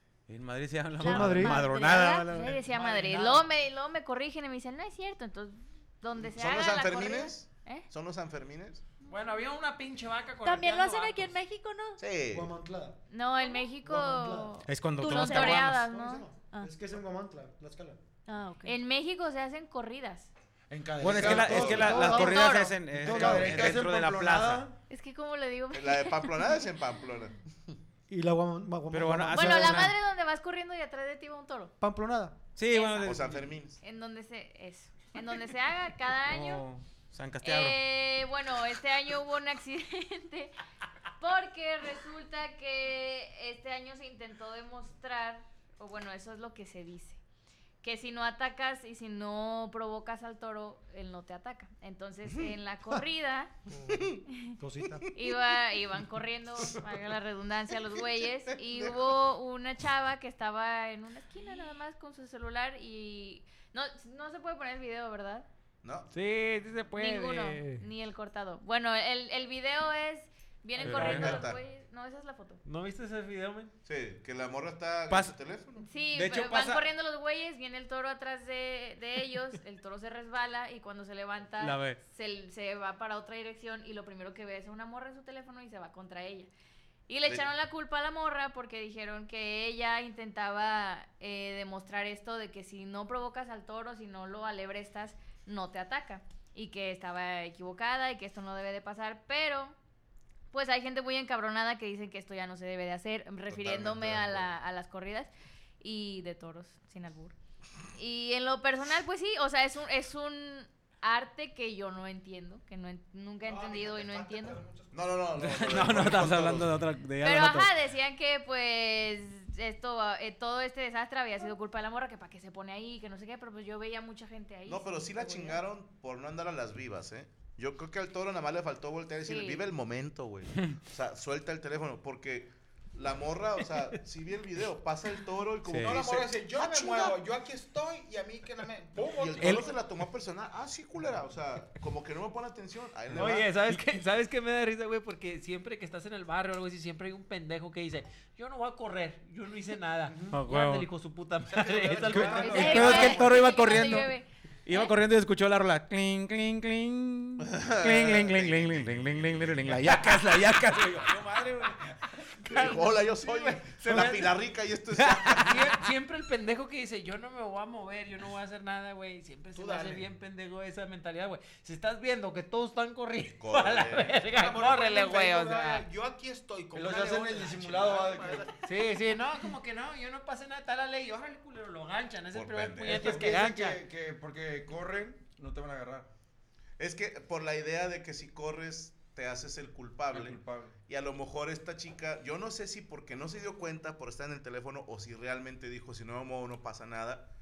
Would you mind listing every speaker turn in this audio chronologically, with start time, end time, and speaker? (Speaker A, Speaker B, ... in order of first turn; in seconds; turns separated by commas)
Speaker A: 0.3-2.6, Speaker B: 1.0-2.3, Speaker C: 1.0-1.6, Speaker D: 2.3-7.9, Speaker E: 6.2-8.8, Speaker F: 9.1-11.4, Speaker B: 10.4-12.0, Speaker E: 12.0-12.6, Speaker C: 12.3-13.0, Speaker D: 13.1-16.3, Speaker B: 13.4-13.7, Speaker C: 13.8-14.6, Speaker A: 14.6-15.8, Speaker B: 15.0-15.7, Speaker C: 15.6-18.0, Speaker B: 16.4-16.8, Speaker B: 18.3-18.8, Speaker D: 18.6-20.3, Speaker G: 20.7-22.3, Speaker A: 21.0-24.6, Speaker C: 21.0-23.6, Speaker D: 22.2-22.8, Speaker G: 22.9-24.8, Speaker D: 24.9-26.6, Speaker E: 25.7-27.4, Speaker C: 28.1-29.9, Speaker A: 28.9-29.9, Speaker D: 29.3-31.7, Speaker C: 31.8-32.4, Speaker A: 32.5-33.4, Speaker D: 32.6-33.1, Speaker E: 33.0-33.8, Speaker D: 33.8-36.6, Speaker A: 36.2-37.8, Speaker D: 37.4-40.6, Speaker D: 41.2-47.2, Speaker D: 47.8-53.5, Speaker E: 52.3-52.9, Speaker C: 53.7-54.0, Speaker E: 53.9-54.2, Speaker D: 54.3-54.6, Speaker C: 54.6-55.0, Speaker D: 55.1-65.5, Speaker E: 55.1-55.6, Speaker E: 58.0-59.2, Speaker E: 65.8-66.1, Speaker A: 66.1-67.8, Speaker D: 67.0-72.6, Speaker F: 67.1-67.7, Speaker A: 70.8-71.4, Speaker E: 70.8-71.6, Speaker F: 72.6-73.7, Speaker E: 73.8-75.9, Speaker A: 75.1-75.3, Speaker D: 75.8-86.5, Speaker A: 76.1-76.8, Speaker A: 81.6-82.0, Speaker D: 87.1-99.7, Speaker D: 100.5-107.3, Speaker E: 103.5-104.5, Speaker D: 108.0-114.6, Speaker H: 113.4-115.3, Speaker E: 114.9-116.8, Speaker A: 115.4-117.7, Speaker D: 117.2-125.6, Speaker E: 124.7-137.2, Speaker D: 129.2-129.6, Speaker A: 135.7-136.0, Speaker H: 135.8-139.7, Speaker E: 139.0-143.5, Speaker A: 139.4-139.6, Speaker F: 143.1-152.9, Speaker A: 150.3-150.9, Speaker H: 151.5-153.3, Speaker A: 152.0-154.1, Speaker D: 152.5-154.9, Speaker E: 152.6-153.3, Speaker A: 154.7-161.9, Speaker E: 157.4-159.7, Speaker E: 162.4-165.7, Speaker F: 162.5-164.3, Speaker A: 164.9-165.8, Speaker F: 165.4-175.9, Speaker H: 169.5-170.1, Speaker E: 173.4-174.1, Speaker H: 174.3-178.8, Speaker G: 176.7-178.5, Speaker F: 178.6-183.8, Speaker E: 182.3-183.4, Speaker G: 182.8-186.1, Speaker E: 186.8-197.3, Speaker G: 190.1-190.8